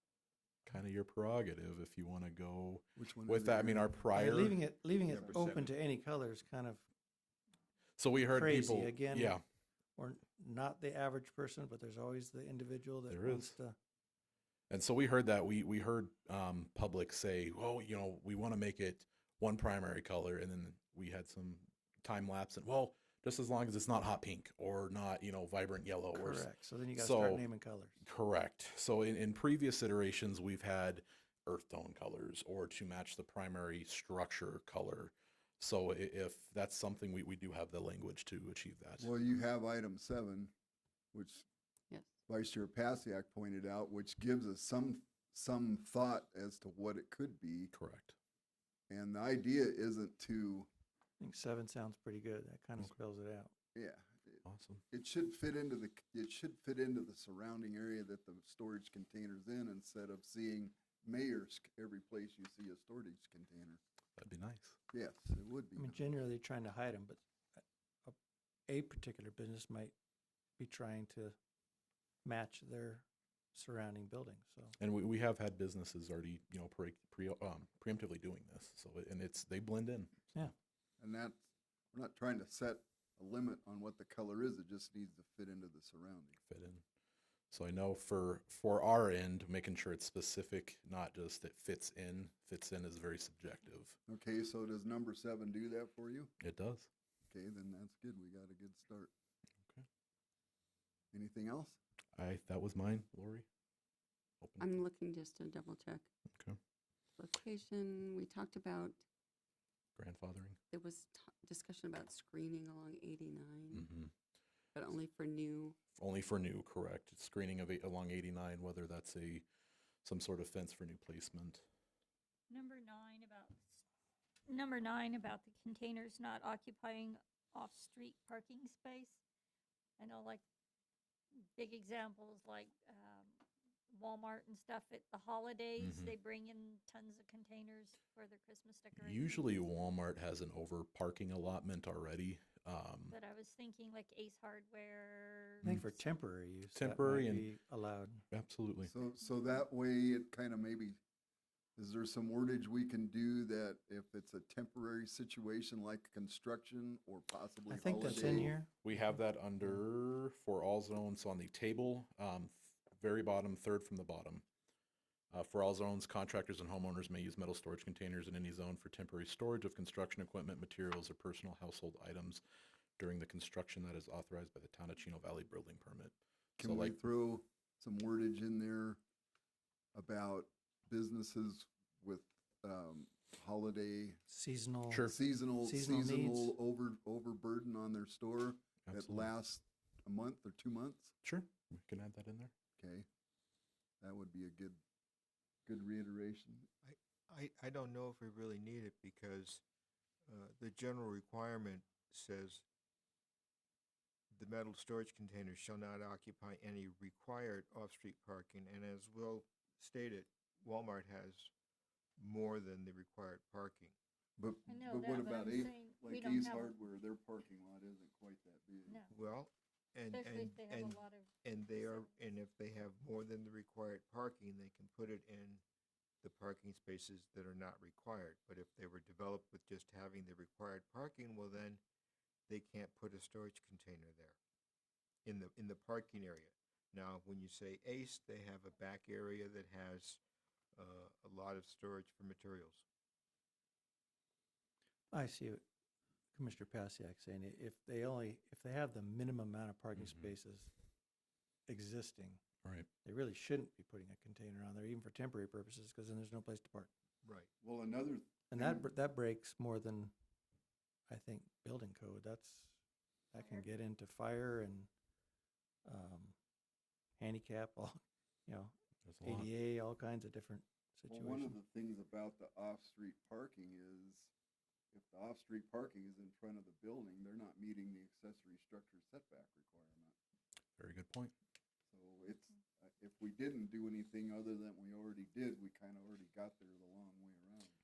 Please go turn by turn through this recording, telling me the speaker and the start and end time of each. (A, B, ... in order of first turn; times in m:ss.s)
0:00.6-0:04.6 A
0:03.0-0:03.9 B
0:04.1-0:06.8 C
0:05.1-0:05.7 B
0:08.0-0:09.4 A
0:08.3-0:09.4 C
0:10.0-0:13.8 C
0:13.1-0:13.6 A
0:14.7-0:27.5 A
0:26.1-0:28.0 C
0:28.0-0:39.1 A
0:39.0-0:40.5 B
0:41.1-0:41.4 B
0:42.3-0:47.7 B
0:47.7-0:48.2 A
0:48.9-0:50.7 B
0:51.2-0:53.5 C
0:53.7-1:03.8 B
0:54.4-0:54.8 A
1:04.2-1:04.8 A
1:04.9-1:06.0 B
1:05.8-1:08.2 C
1:08.7-1:09.9 C
1:10.6-1:11.4 C
1:12.2-1:14.8 C
1:14.8-1:20.3 A
1:21.0-1:26.4 B
1:26.4-1:26.8 A
1:27.5-1:34.0 A
1:34.1-1:36.3 B
1:36.4-1:36.9 A
1:37.3-1:39.1 B
1:41.1-1:41.8 B
1:42.1-1:43.5 A
1:44.4-1:44.7 A
1:44.6-1:46.1 D
1:47.2-1:49.0 D
1:50.0-1:50.6 A
1:50.7-1:53.9 D
1:53.7-1:54.1 A
1:54.7-1:55.8 D
1:56.0-1:59.4 A
2:00.0-2:01.6 A
2:02.5-2:03.8 E
2:04.5-2:09.2 E
2:10.0-2:10.4 E
2:11.5-2:19.8 E
2:15.8-2:16.1 A
2:18.9-2:23.2 A
2:23.1-2:25.7 E
2:25.6-2:26.0 A
2:25.6-2:28.2 C
2:26.7-2:27.5 A
2:28.3-2:28.9 A
2:28.8-2:31.0 B
2:31.8-2:38.5 B
2:37.7-2:39.8 C
2:38.0-2:44.4 A
2:45.3-2:52.4 A
2:53.0-2:57.0 A
2:56.6-2:59.0 B
2:59.9-3:04.2 B
3:04.3-3:05.1 C
3:04.9-3:05.2 A
3:05.1-3:11.1 B
3:05.6-3:06.5 C
3:08.8-3:09.3 A
3:11.2-3:12.5 A
3:12.8-3:13.0 B
3:14.0-3:14.8 B
3:15.6-3:16.7 B
3:16.8-3:19.6 F
3:20.3-3:22.6 F
3:24.3-3:31.5 F
3:32.2-3:33.9 F
3:34.4-3:39.0 B
3:34.7-3:36.7 E
3:38.8-3:39.1 E
3:39.1-3:45.6 F
3:40.1-3:42.1 E
3:46.2-3:51.8 F
3:52.5-3:54.4 F
3:55.2-4:00.2 F
4:00.8-4:02.8 F
4:05.1-4:05.6 C
4:06.3-4:10.7 C
4:09.9-4:10.3 A
4:11.7-4:12.4 C
4:13.0-4:16.9 C
4:17.2-4:17.5 F
4:17.6-4:18.9 B
4:18.5-4:20.1 C
4:21.1-4:22.8 C
4:23.3-4:24.9 C
4:23.4-4:23.7 E
4:25.8-4:26.4 C
4:27.2-4:31.6 C
4:29.0-4:29.5 A
4:31.1-4:34.3 B
4:34.9-4:40.1 B
4:40.8-4:41.3 A
4:41.9-4:47.7 B